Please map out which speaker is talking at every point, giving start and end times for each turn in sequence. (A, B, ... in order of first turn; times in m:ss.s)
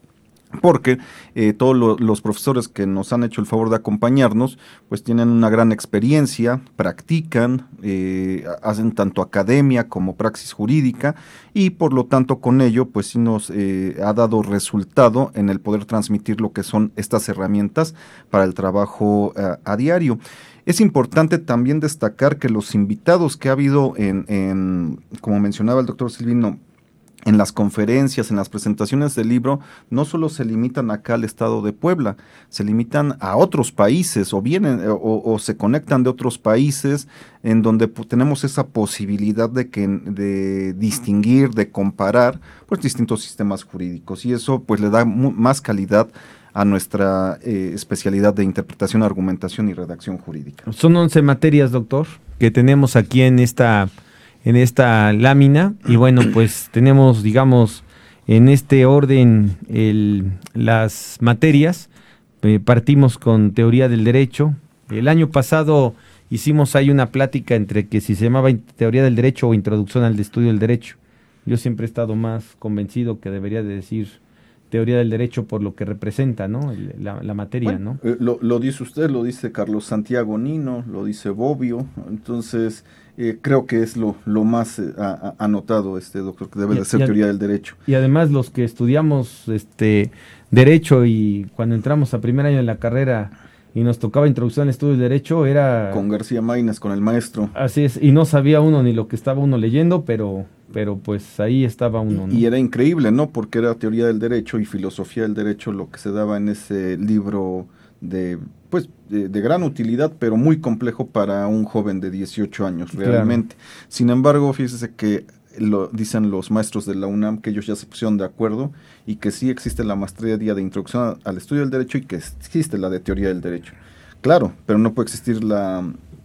0:00.6-0:26.6 A
0:27.2-0:50.6 A
0:50.6-0:53.9 B
0:54.4-1:01.9 B
1:02.4-1:14.2 B
1:14.7-1:18.0 B
1:17.6-1:27.8 A
1:26.7-1:27.1 B
1:27.8-1:36.0 B
1:35.9-1:37.5 A
1:37.5-1:42.4 B
1:42.1-2:06.0 A
1:53.0-1:53.4 B